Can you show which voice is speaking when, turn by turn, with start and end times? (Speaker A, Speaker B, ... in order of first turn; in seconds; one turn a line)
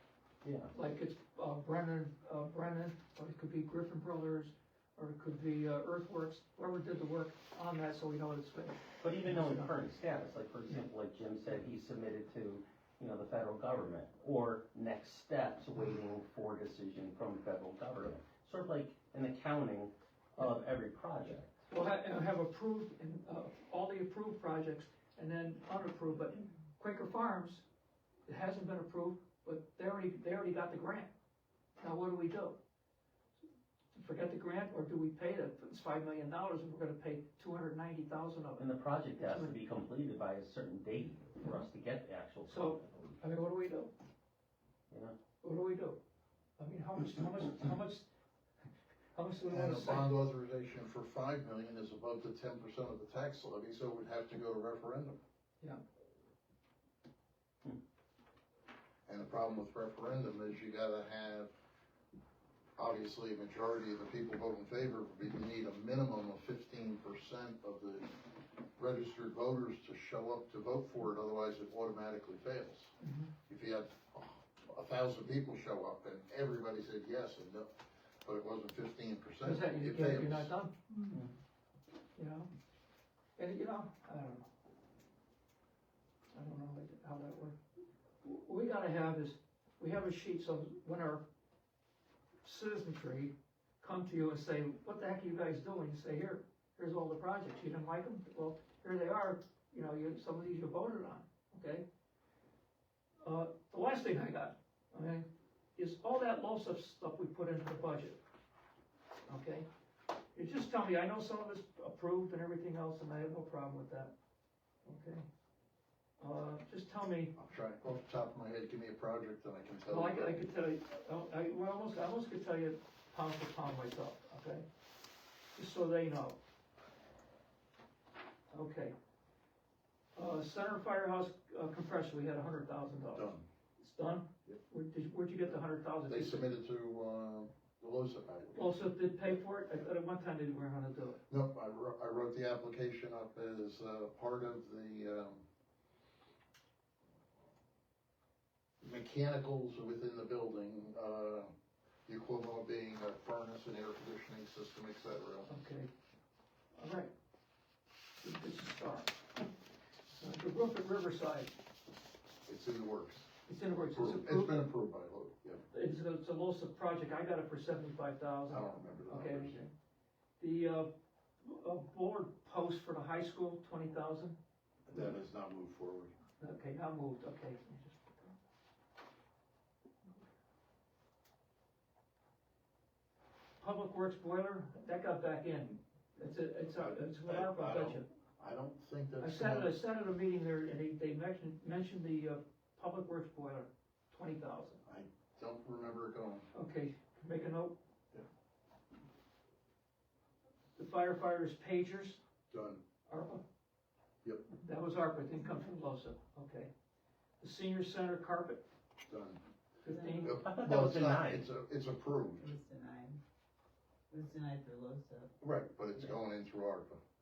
Speaker A: 0.4-0.7
Speaker B: 0.7-9.8
Speaker A: 9.0-21.6
Speaker B: 21.7-27.6
Speaker B: 28.3-31.1
Speaker B: 31.8-32.6
Speaker B: 34.0-39.6
Speaker A: 38.6-43.2
Speaker B: 42.5-43.9
Speaker A: 44.9-45.1
Speaker B: 45.4-46.0
Speaker B: 46.6-48.1
Speaker B: 49.1-50.1
Speaker C: 49.5-55.2
Speaker C: 59.1-61.5
Speaker C: 62.8-68.2
Speaker C: 68.8-72.9
Speaker B: 73.0-73.3
Speaker C: 73.5-77.7
Speaker C: 78.2-80.5
Speaker B: 79.4-80.8
Speaker B: 82.2-82.5
Speaker B: 83.4-84.5
Speaker B: 86.3-87.6
Speaker B: 88.2-91.3
Speaker B: 92.4-101.8
Speaker B: 103.2-108.2
Speaker B: 109.3-109.7
Speaker B: 110.3-114.1
Speaker B: 114.8-115.3
Speaker B: 116.2-117.3
Speaker C: 117.4-120.4
Speaker B: 119.9-124.7
Speaker B: 125.5-126.4
Speaker B: 128.5-128.9
Speaker B: 130.2-136.4
Speaker C: 133.1-133.4
Speaker C: 136.1-138.8
Speaker B: 138.5-141.2
Speaker C: 141.3-145.4
Speaker C: 148.8-151.5
Speaker C: 152.1-155.5
Speaker B: 155.5-155.9
Speaker B: 156.8-157.1
Speaker B: 158.2-159.5
Speaker B: 160.1-161.5
Speaker C: 162.5-163.3
Speaker B: 163.5-164.6
Speaker C: 163.9-165.6
Speaker B: 165.7-169.7
Speaker C: 168.5-169.6
Speaker B: 170.4-170.9
Speaker B: 171.4-174.4
Speaker C: 174.9-176.1
Speaker B: 176.4-178.3
Speaker B: 183.6-188.1
Speaker C: 186.7-189.7
Speaker B: 189.2-194.8
Speaker C: 194.8-196.5
Speaker B: 196.5-197.8
Speaker B: 200.8-202.2
Speaker C: 202.5-202.8
Speaker B: 203.1-203.4
Speaker B: 204.6-206.7
Speaker B: 207.4-208.6
Speaker C: 209.1-209.4
Speaker B: 209.8-210.4
Speaker D: 209.8-210.3
Speaker C: 210.2-212.5
Speaker A: 210.2-211.5
Speaker D: 212.4-213.2
Speaker D: 214.1-215.4
Speaker C: 215.4-217.0